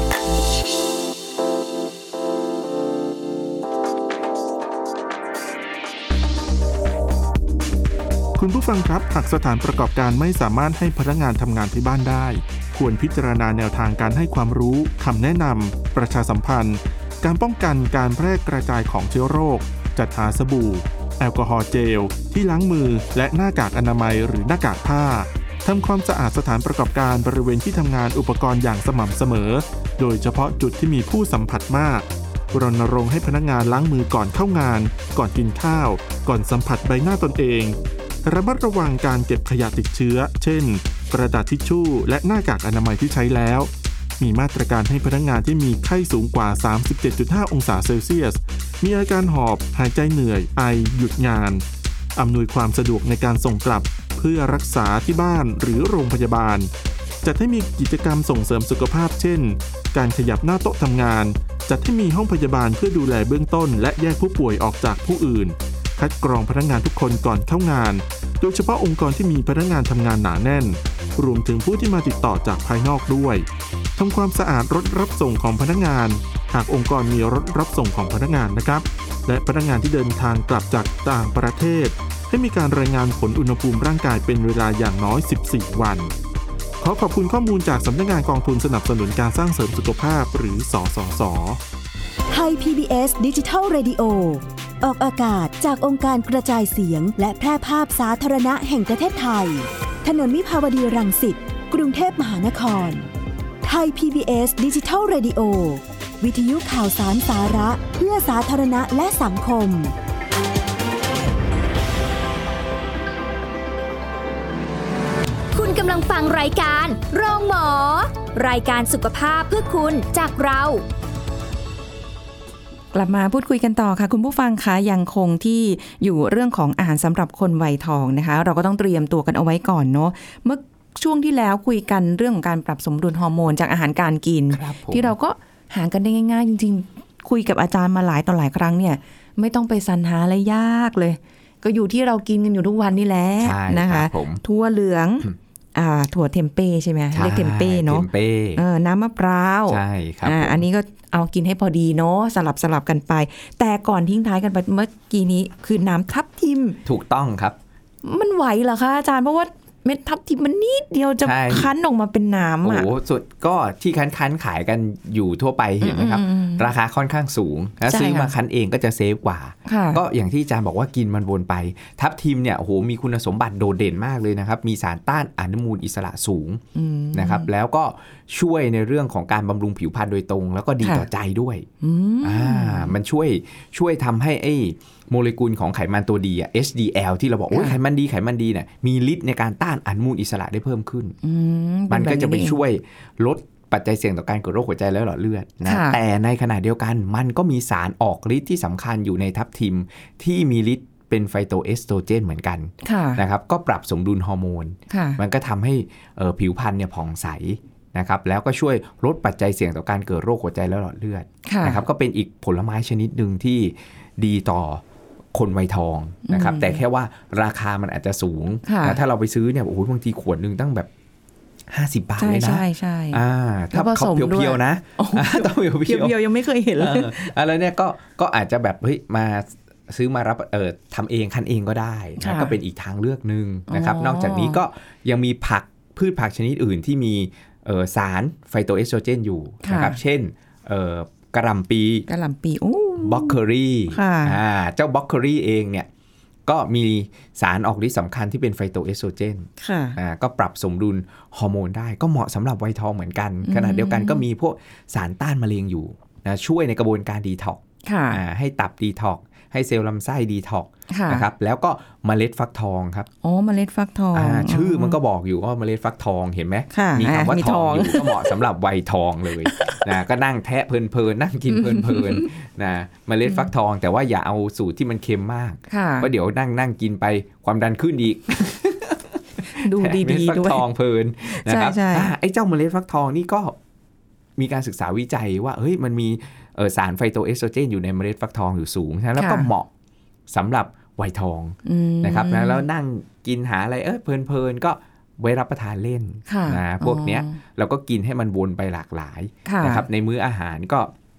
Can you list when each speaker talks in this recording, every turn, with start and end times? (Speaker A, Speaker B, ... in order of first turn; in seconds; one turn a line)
Speaker A: 8.4-51.6
Speaker A: 52.2-56.7
Speaker A: 57.2-86.1
Speaker A: 86.8-91.6
Speaker B: 92.3-103.1
Speaker B: 103.6-109.9
Speaker C: 115.5-120.8
Speaker D: 122.9-156.8
Speaker E: 134.5-135.1
Speaker E: 143.4-144.4
Speaker E: 147.1-148.6
Speaker E: 149.7-150.6
Speaker E: 156.8-157.6
Speaker D: 158.0-162.9
Speaker E: 161.2-161.7
Speaker E: 162.6-176.6
Speaker D: 165.8-166.7
Speaker D: 167.8-168.3
Speaker D: 169.7-170.0
Speaker D: 176.8-177.5
Speaker E: 177.1-181.7
Speaker D: 181.8-182.9
Speaker E: 182.2-191.2
Speaker D: 187.5-187.8
Speaker D: 191.2-192.6
Speaker E: 191.9-214.8
Speaker D: 195.7-196.0
Speaker D: 202.8-203.2
Speaker D: 204.9-205.2
Speaker D: 211.4-211.8
Speaker E: 215.3-220.9
Speaker D: 216.3-216.8
Speaker D: 218.7-219.0
Speaker E: 221.7-226.2
Speaker D: 222.2-227.3
Speaker E: 226.8-242.1
Speaker D: 232.2-232.6
Speaker D: 233.7-234.6
Speaker D: 239.6-240.0
Speaker D: 242.1-243.4
Speaker E: 243.0-245.9
Speaker D: 243.9-244.4
Speaker E: 246.5-263.1
Speaker D: 249.6-250.0
Speaker D: 253.4-254.2
Speaker D: 257.9-258.2
Speaker D: 260.9-261.3
Speaker D: 263.2-265.0
Speaker E: 264.1-283.6
Speaker D: 266.7-268.4
Speaker D: 269.5-269.8
Speaker D: 271.6-272.3
Speaker D: 275.7-276.1
Speaker D: 279.5-280.6
Speaker D: 281.3-282.1
Speaker E: 284.4-289.7
Speaker D: 289.2-289.5
Speaker E: 290.3-300.9
Speaker D: 291.6-292.6
Speaker D: 296.3-297.4
Speaker D: 299.4-299.9